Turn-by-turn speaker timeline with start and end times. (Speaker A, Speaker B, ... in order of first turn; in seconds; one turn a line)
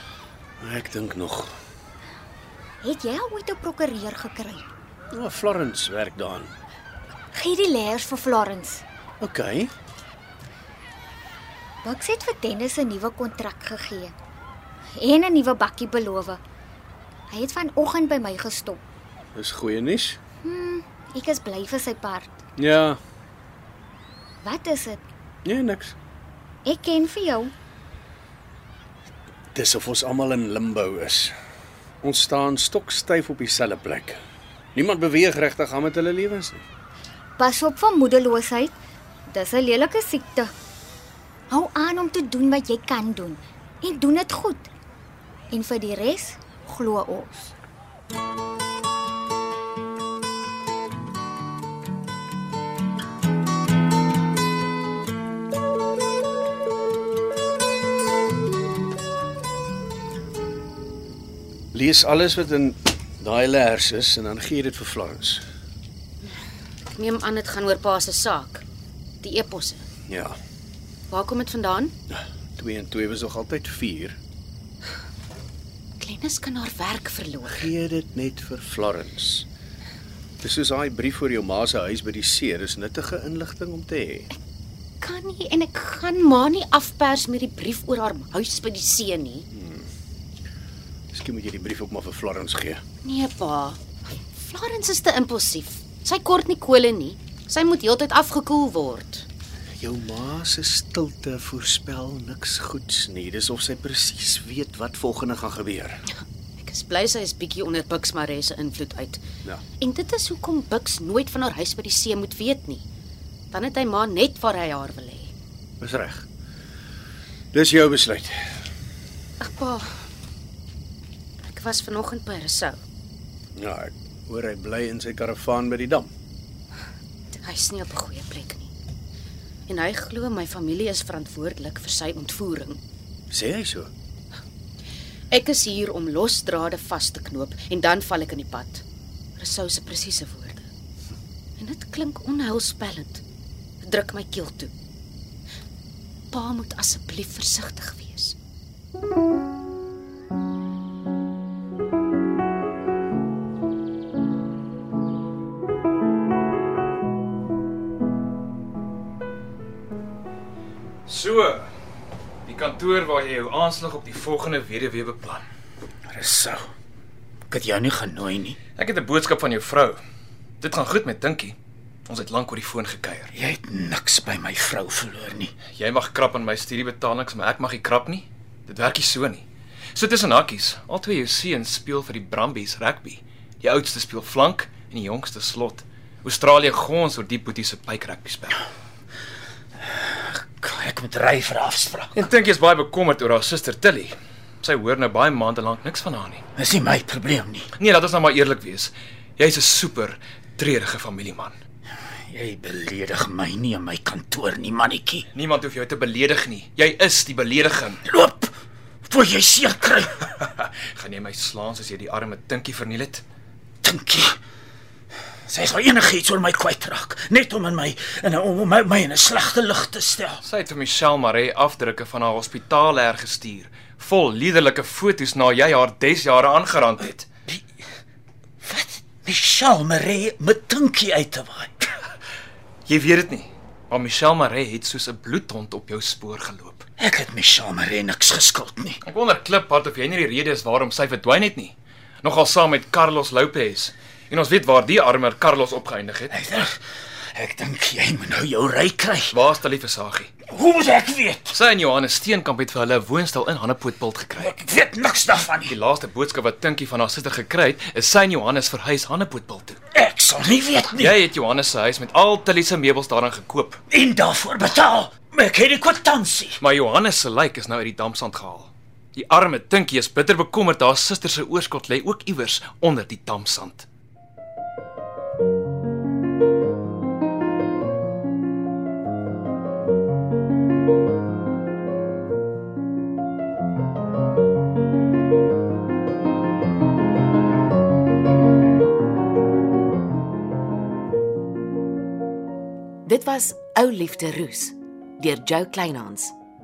Speaker A: 0.6-1.5
Speaker B: 2.8-4.7
Speaker A: 5.1-6.5
Speaker B: 7.3-8.8
Speaker A: 9.2-9.7
Speaker B: 11.8-14.1
Speaker B: 15.0-16.4
Speaker B: 17.3-18.8
Speaker A: 19.4-20.2
Speaker B: 20.4-22.4
Speaker A: 22.6-23.0
Speaker B: 24.4-25.0
Speaker A: 25.4-25.9
Speaker B: 26.6-27.5
Speaker A: 29.6-31.4
Speaker A: 32.0-34.2
Speaker A: 34.8-36.6
Speaker B: 37.4-38.8
Speaker B: 39.3-40.5
Speaker B: 41.5-44.7
Speaker B: 45.5-47.5
Speaker A: 61.7-65.4
Speaker C: 66.9-68.6
Speaker C: 69.2-69.8
Speaker A: 70.1-70.4
Speaker C: 71.1-71.9
Speaker A: 72.1-74.2
Speaker C: 76.0-77.7
Speaker A: 77.5-79.5
Speaker A: 80.4-84.3
Speaker C: 85.0-89.5
Speaker A: 89.5-89.9
Speaker A: 91.1-92.8
Speaker C: 93.0-93.8
Speaker C: 94.4-99.2
Speaker A: 99.8-106.0
Speaker C: 106.6-109.2
Speaker C: 109.8-112.8
Speaker C: 113.5-115.3
Speaker A: 115.8-116.3
Speaker A: 117.5-118.4
Speaker C: 119.4-120.0
Speaker C: 121.5-122.8
Speaker A: 123.6-126.1
Speaker C: 127.4-128.7
Speaker C: 129.7-132.8
Speaker A: 133.3-133.9
Speaker C: 135.3-138.8
Speaker C: 139.4-140.7
Speaker C: 141.6-143.2
Speaker C: 143.8-144.7
Speaker C: 146.3-148.4
Speaker D: 161.1-161.7
Speaker D: 162.4-165.5
Speaker E: 166.1-166.7
Speaker E: 167.5-168.6
Speaker D: 168.8-170.0
Speaker D: 170.6-171.6
Speaker D: 172.1-173.3
Speaker E: 173.3-175.5
Speaker D: 175.8-188.6
Speaker E: 189.8-192.3
Speaker D: 192.2-196.4
Speaker E: 196.6-197.7
Speaker D: 197.8-201.6
Speaker E: 202.3-205.3
Speaker D: 205.3-208.0
Speaker E: 208.1-208.5
Speaker E: 209.1-210.4
Speaker D: 210.6-213.2
Speaker E: 213.8-214.4
Speaker E: 215.5-220.4
Speaker D: 220.4-227.3
Speaker E: 228.6-231.9
Speaker D: 232.9-236.9
Speaker E: 237.0-239.0
Speaker D: 239.0-246.3
Speaker E: 246.3-246.8
Speaker E: 247.3-249.4
Speaker D: 249.3-250.3
Speaker E: 250.5-251.6
Speaker D: 251.5-254.5
Speaker E: 254.4-255.8
Speaker D: 255.6-259.8
Speaker E: 259.9-261.2
Speaker D: 261.0-263.8
Speaker E: 263.9-266.6
Speaker D: 266.6-273.9
Speaker F: 293.1-296.3